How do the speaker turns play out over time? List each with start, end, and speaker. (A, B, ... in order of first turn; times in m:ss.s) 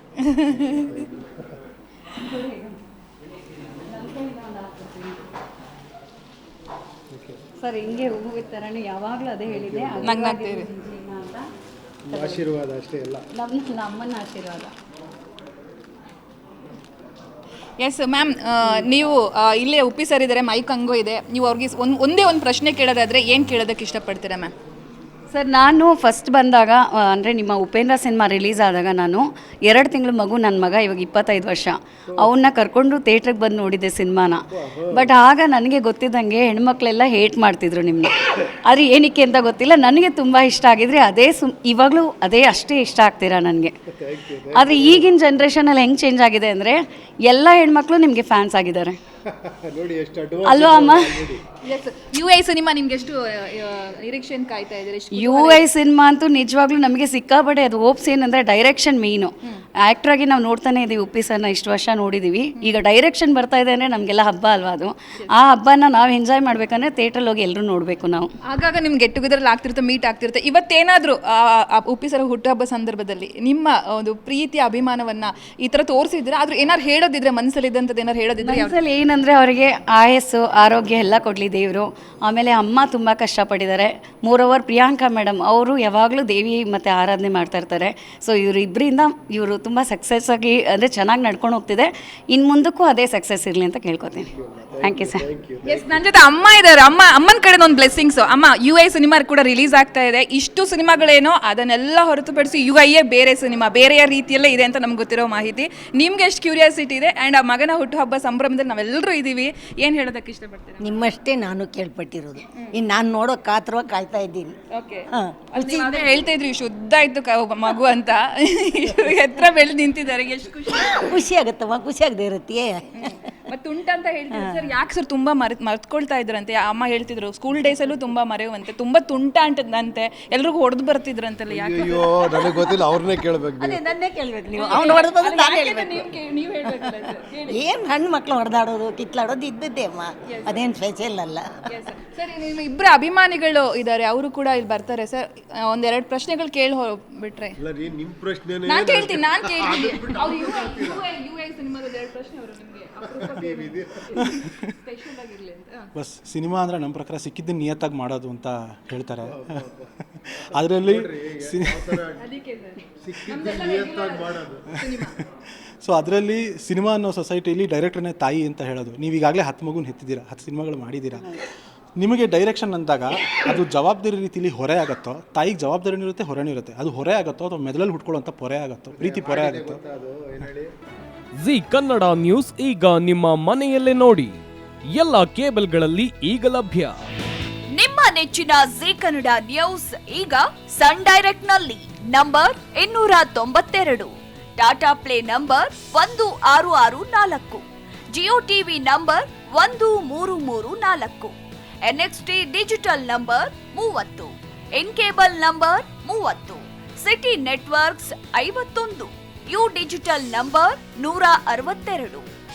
0:00.5-0:01.5 A
0:02.2-0:02.8 B
0:03.8-0:05.2 B
0:07.1-0:07.4 A
0:07.6-0:11.4 B
0:09.5-0:10.1 A
0:10.0-0:10.7 C
0:12.1-0:13.2 A
0:12.1-0:12.4 B
0:13.4-0:14.7 B
0:17.8-0:24.5 C
0:25.3-0:43.8 B
0:32.1-0:32.3 A
0:34.5-0:35.1 A
0:43.9-0:45.0 A
0:44.5-0:49.0 B
0:49.2-0:51.4 A
0:50.4-0:51.2 B
0:51.6-0:55.7 C
0:55.1-1:08.3 B
1:08.4-1:18.8 C
1:18.4-1:34.3 B
1:34.3-1:36.0 A
1:34.8-1:35.2 B
1:35.6-1:51.0 C
1:50.8-1:54.5 D
1:54.7-2:01.2 C
1:55.2-1:55.9 D
2:01.0-2:02.8 D
2:03.0-2:12.8 C
2:11.5-2:13.8 A
2:13.6-2:17.6 C
2:13.9-2:16.0 D
2:17.5-2:21.5 D
2:20.3-2:20.6 C
2:21.7-2:27.6 C
2:27.6-2:31.0 A
2:28.7-2:35.9 C
2:33.1-2:34.0 A
2:34.2-2:34.7 E
2:35.9-2:39.6 E
2:39.2-2:39.9 A
2:40.1-2:42.0 E
2:40.6-2:42.2 A
2:42.2-2:45.2 C
2:43.0-2:44.7 A
2:45.8-2:51.4 E
2:52.0-2:59.8 E
2:58.9-3:00.7 A
3:01.4-3:04.4 F
3:04.9-3:07.0 F
3:07.7-3:21.3 G
3:21.8-3:32.3 G